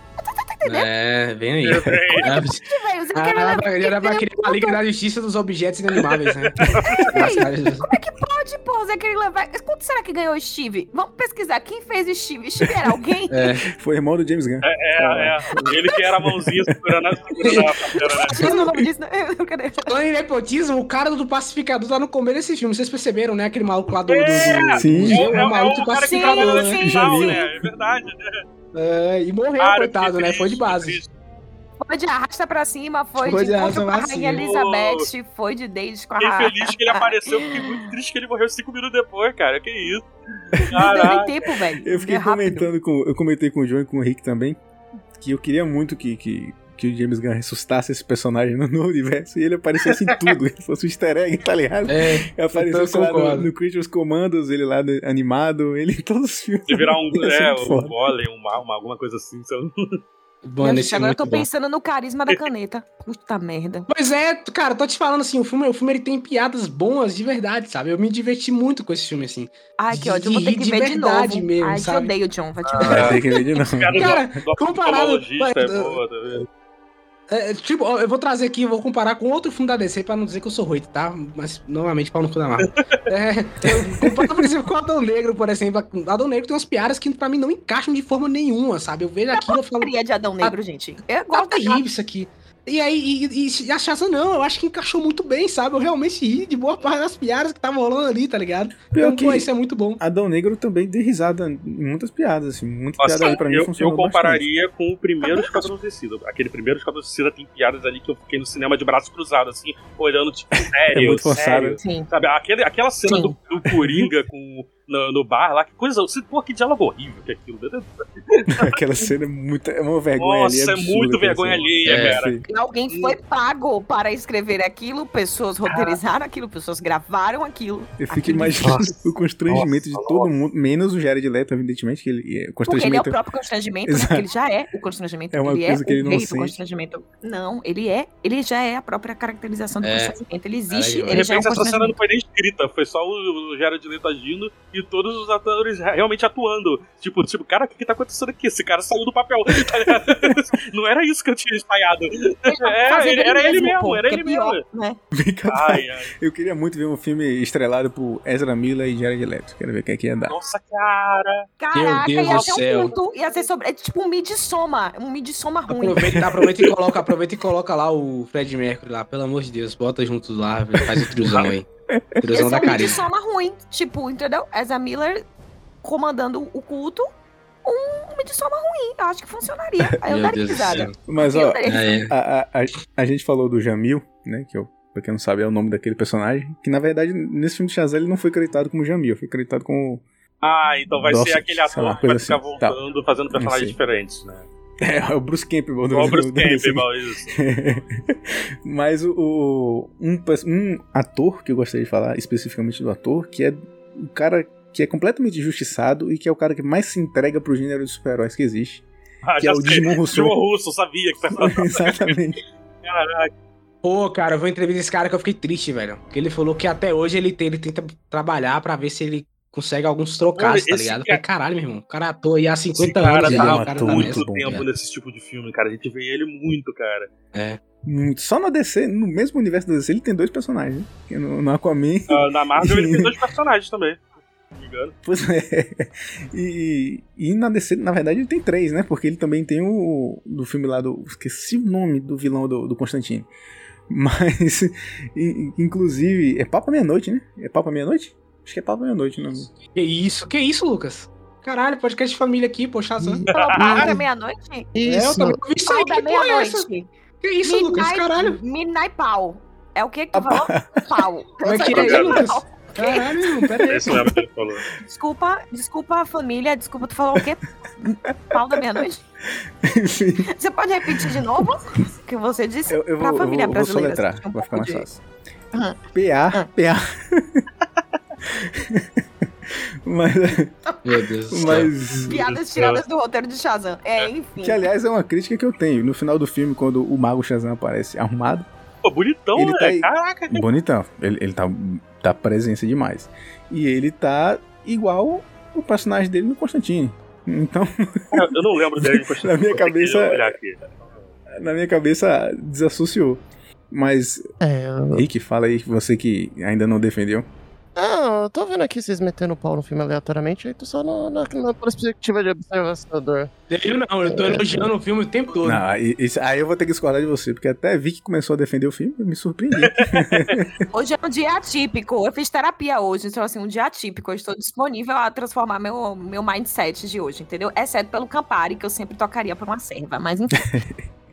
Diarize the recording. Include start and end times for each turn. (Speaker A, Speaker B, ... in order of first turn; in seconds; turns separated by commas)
Speaker A: 0.2-0.9, Speaker B: 0.7-2.6, Speaker C: 1.6-2.3, Speaker A: 2.2-4.8, Speaker B: 3.1-7.9, Speaker C: 6.1-7.1, Speaker A: 7.0-13.6, Speaker B: 13.3-13.7, Speaker D: 13.7-16.5, Speaker C: 14.6-18.4, Speaker A: 18.1-19.9, Speaker D: 18.3-18.9, Speaker B: 19.8-26.8, Speaker C: 24.1-28.4, Speaker D: 24.3-25.4, Speaker A: 25.7-27.4, Speaker D: 26.8-27.7, Speaker B: 28.7-31.0, Speaker C: 29.6-31.1, Speaker A: 31.8-37.9, Speaker B: 33.2-34.4, Speaker C: 34.4-35.0, Speaker C: 36.2-41.3, Speaker A: 40.7-42.7, Speaker D: 41.8-44.6, Speaker D: 45.2-58.0, Speaker B: 51.9-53.5, Speaker C: 56.7-60.0, Speaker B: 60.4-61.5, Speaker A: 60.6-63.9, Speaker B: 63.9-72.1, Speaker A: 69.8-73.2, Speaker C: 72.7-76.5, Speaker B: 72.8-73.2, Speaker D: 72.9-74.2, Speaker B: 74.0-76.0, Speaker B: 77.3-90.5, Speaker C: 82.6-83.0, Speaker D: 83.7-84.4, Speaker A: 89.3-91.8, Speaker B: 91.3-100.0, Speaker D: 98.9-99.5, Speaker D: 100.0-104.5, Speaker C: 103.0-118.6, Speaker A: 105.2-105.7, Speaker D: 110.6-111.8, Speaker A: 111.8-112.1, Speaker A: 113.1-113.3, Speaker D: 113.7-114.1, Speaker D: 118.5-122.5, Speaker C: 120.2-122.4, Speaker B: 121.8-122.2, Speaker A: 122.5-128.9, Speaker C: 122.9-123.2, Speaker C: 125.7-126.0, Speaker D: 128.0-133.2, Speaker C: 129.5-130.3, Speaker A: 132.7-142.0, Speaker D: 133.9-134.2, Speaker D: 135.3-136.6, Speaker B: 139.8-140.2, Speaker B: 140.7-141.4, Speaker C: 141.1-154.6, Speaker A: 152.5-155.0, Speaker D: 155.1-160.4, Speaker C: 155.5-156.2, Speaker C: 160.3-161.5, Speaker A: 161.6-166.1, Speaker B: 161.7-162.9, Speaker C: 162.2-162.5, Speaker B: 165.7-171.7, Speaker D: 166.0-166.7, Speaker D: 170.8-172.3, Speaker C: 171.3-171.5, Speaker B: 172.2-173.0, Speaker A: 172.3-175.2, Speaker A: 175.8-177.1, Speaker A: 177.6-181.9, Speaker B: 180.1-180.9, Speaker D: 181.1-190.0, Speaker B: 181.7-182.1, Speaker C: 190.4-194.5, Speaker D: 191.0-192.8, Speaker D: 193.3-193.8, Speaker D: 194.8-208.8, Speaker C: 195.9-197.4, Speaker C: 209.2-212.2, Speaker D: 209.4-210.4, Speaker D: 211.3-212.4, Speaker C: 212.8-213.3, Speaker B: 213.8-224.7, Speaker C: 220.3-221.2, Speaker C: 222.8-227.1, Speaker D: 223.2-224.7, Speaker B: 227.3-227.6, Speaker D: 227.8-233.1, Speaker C: 232.1-234.0, Speaker C: 234.5-234.9, Speaker D: 235.1-243.3, Speaker D: 243.9-249.5, Speaker B: 249.8-253.2, Speaker E: 253.0-254.1, Speaker A: 253.3-254.7, Speaker C: 253.4-253.9, Speaker E: 254.8-255.4, Speaker B: 254.8-256.7, Speaker A: 255.7-256.9, Speaker B: 257.2-258.4, Speaker A: 257.4-263.1, Speaker D: 260.1-260.9, Speaker B: 261.4-263.9, Speaker C: 261.7-262.3, Speaker D: 263.2-264.1, Speaker C: 263.7-264.7, Speaker A: 264.9-269.0, Speaker D: 268.1-268.6, Speaker D: 269.6-270.3, Speaker A: 270.4-274.9, Speaker D: 271.0-271.4, Speaker D: 272.7-275.0, Speaker A: 275.5-275.8, Speaker D: 275.9-277.4, Speaker D: 278.3-280.5, Speaker A: 280.7-284.6, Speaker B: 280.9-281.7, Speaker D: 281.3-282.2, Speaker C: 282.1-282.8, Speaker D: 284.4-288.5, Speaker C: 288.8-290.4, Speaker D: 289.4-298.3, Speaker C: 298.1-300.6, Speaker D: 298.8-300.3, Speaker D: 301.4-304.2, Speaker E: 304.4-305.1, Speaker D: 304.9-307.3, Speaker E: 307.8-313.3, Speaker B: 313.5-315.6, Speaker E: 314.0-314.7, Speaker D: 315.4-320.5, Speaker C: 319.6-320.4, Speaker A: 320.7-330.6